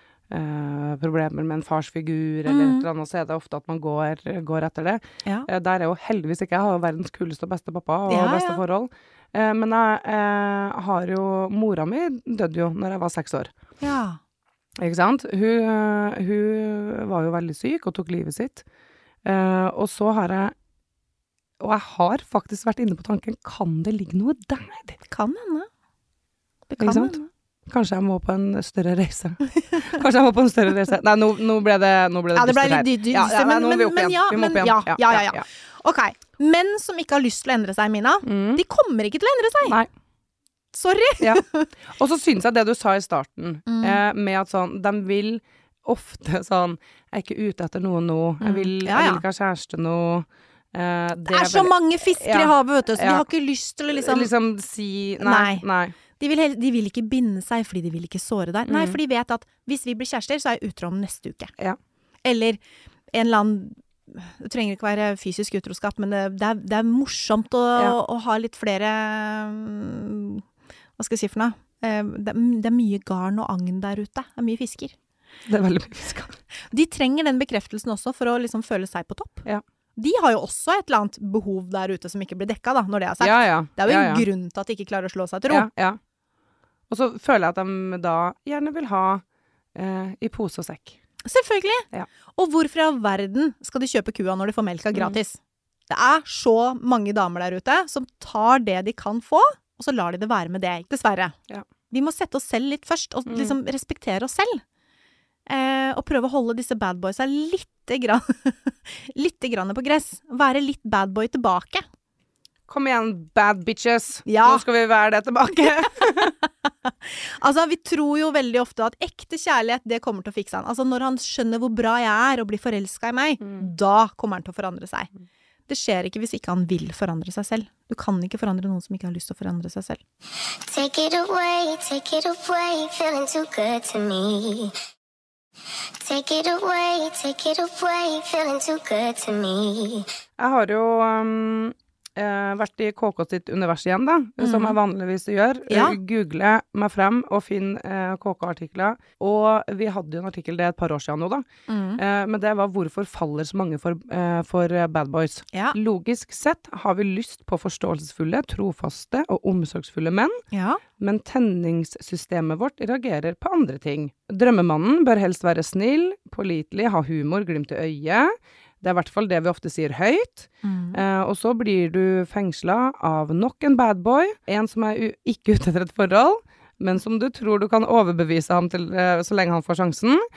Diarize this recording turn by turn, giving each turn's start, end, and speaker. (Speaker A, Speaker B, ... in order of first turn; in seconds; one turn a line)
Speaker A: 0.3-13.5
Speaker B: 2.5-2.9
Speaker B: 8.1-8.6
Speaker B: 13.8-14.2
Speaker A: 14.8-18.6
Speaker A: 19.2-20.5
Speaker A: 21.6-25.0
Speaker B: 25.1-25.7
Speaker B: 26.7-27.3
Speaker A: 26.8-35.4
Speaker B: 32.3-39.8
Speaker A: 38.2-38.6
Speaker A: 39.6-39.9
Speaker B: 40.7-41.7
Speaker A: 41.2-53.2
Speaker B: 43.6-44.0
Speaker B: 48.4-49.2
Speaker B: 51.3-54.3
Speaker A: 53.9-56.0
Speaker B: 55.2-55.6
Speaker B: 56.2-61.5
Speaker A: 58.7-59.0
Speaker B: 62.2-62.6
Speaker B: 63.1-70.4
Speaker B: 71.0-74.9
Speaker A: 75.5-76.3
Speaker B: 76.7-85.7
Speaker A: 83.2-84.2
Speaker A: 85.5-86.0
Speaker A: 86.9-89.2
Speaker A: 89.7-91.0
Speaker B: 91.2-101.3
Speaker B: 101.9-104.6
Speaker A: 103.3-103.5
Speaker B: 105.5-111.8
Speaker A: 112.7-116.3
Speaker B: 114.2-114.6
Speaker B: 116.8-125.1
Speaker B: 125.7-130.0
Speaker C: 130.6-134.8
Speaker C: 135.7-140.1
Speaker A: 140.4-151.4
Speaker B: 144.4-144.8
Speaker B: 145.7-146.0
Speaker B: 151.7-152.0
Speaker A: 152.0-160.4
Speaker B: 160.5-160.8
Speaker A: 161.0-180.2
Speaker B: 170.6-171.0